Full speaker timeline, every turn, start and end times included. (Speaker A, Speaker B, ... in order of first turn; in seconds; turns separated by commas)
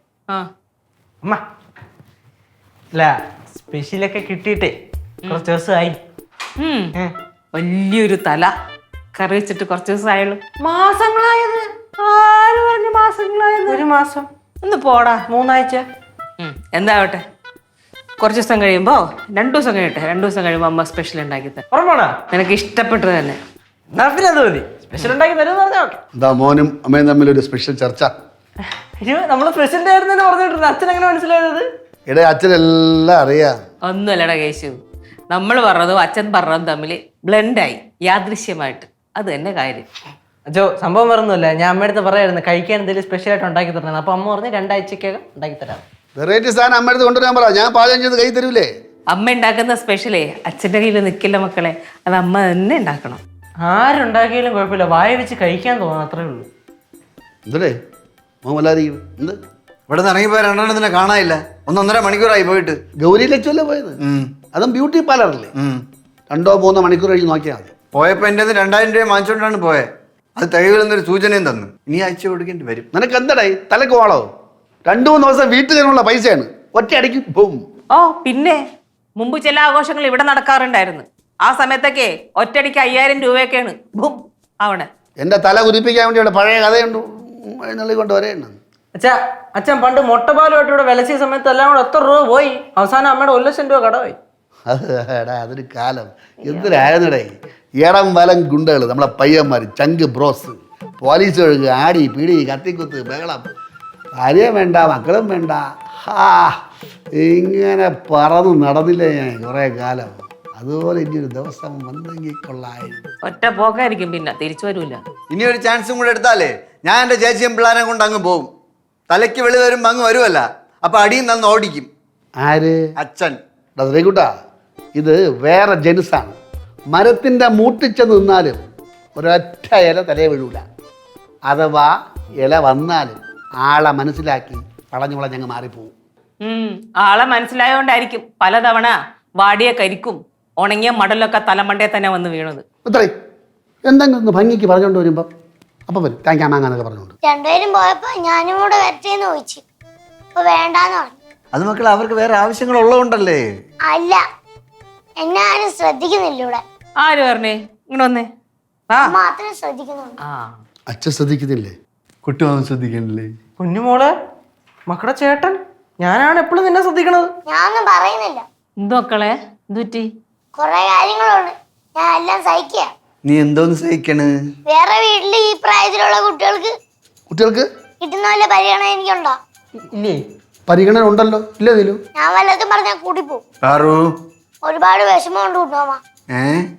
Speaker A: 2.9-4.7, Speaker A: 5.3-6.0, Speaker B: 6.6-6.9, Speaker B: 7.5-8.5, Speaker B: 9.1-10.4, Speaker A: 10.6-12.8, Speaker B: 12.0-13.8, Speaker A: 13.7-14.3, Speaker B: 14.6-15.2, Speaker A: 15.3-15.8, Speaker B: 16.4-17.2, Speaker B: 18.2-21.6, Speaker A: 21.7-22.2, Speaker B: 22.3-23.4, Speaker A: 23.9-26.0, Speaker C: 26.1-28.1, Speaker A: 29.0-31.6, Speaker C: 32.1-33.6, Speaker B: 33.9-34.8, Speaker B: 35.3-39.8, Speaker A: 40.5-45.8, Speaker C: 46.1-48.7, Speaker B: 49.1-53.2, Speaker A: 53.6-56.5, Speaker C: 57.5-57.7, Speaker C: 58.4-59.4, Speaker D: 59.9-62.8, Speaker C: 63.0-64.0, Speaker D: 64.0-64.3, Speaker C: 64.5-65.5, Speaker D: 65.5-65.8, Speaker C: 66.3-67.7, Speaker D: 67.9-72.8, Speaker C: 72.9-74.3, Speaker C: 74.8-77.6, Speaker B: 77.9-78.6, Speaker B: 79.2-84.9, Speaker C: 85.2-88.6, Speaker A: 89.0-94.2, Speaker C: 94.7-103.4, Speaker B: 96.5-96.9, Speaker C: 104.2-106.6, Speaker C: 107.2-113.0, Speaker B: 113.2-115.0, Speaker D: 115.3-118.5, Speaker D: 119.1-121.9, Speaker C: 122.4-122.8, Speaker D: 123.0-123.4, Speaker C: 123.8-124.3, Speaker C: 125.0-126.3, Speaker C: 126.9-128.6, Speaker C: 129.2-130.7, Speaker C: 131.5-135.9, Speaker B: 136.4-142.6, Speaker C: 142.8-143.1, Speaker C: 143.8-145.3, Speaker C: 145.9-147.1, Speaker E: 147.2-149.6, Speaker E: 150.3-151.2, Speaker D: 151.5-153.4, Speaker E: 153.9-154.2, Speaker E: 155.2-156.6, Speaker B: 157.0-158.3, Speaker E: 159.0-160.2, Speaker B: 160.2-160.6, Speaker C: 160.9-161.7, Speaker C: 162.2-163.3, Speaker A: 163.6-164.1, Speaker A: 164.9-167.3, Speaker E: 167.5-168.4, Speaker B: 168.8-170.1, Speaker E: 170.6-172.9, Speaker D: 173.2-174.3, Speaker E: 174.7-176.7, Speaker C: 177.3-177.6, Speaker E: 178.0-179.4, Speaker A: 179.8-180.2, Speaker C: 180.7-182.0, Speaker E: 182.2-183.4, Speaker D: 183.6-184.1, Speaker E: 184.6-186.0, Speaker D: 186.3-186.6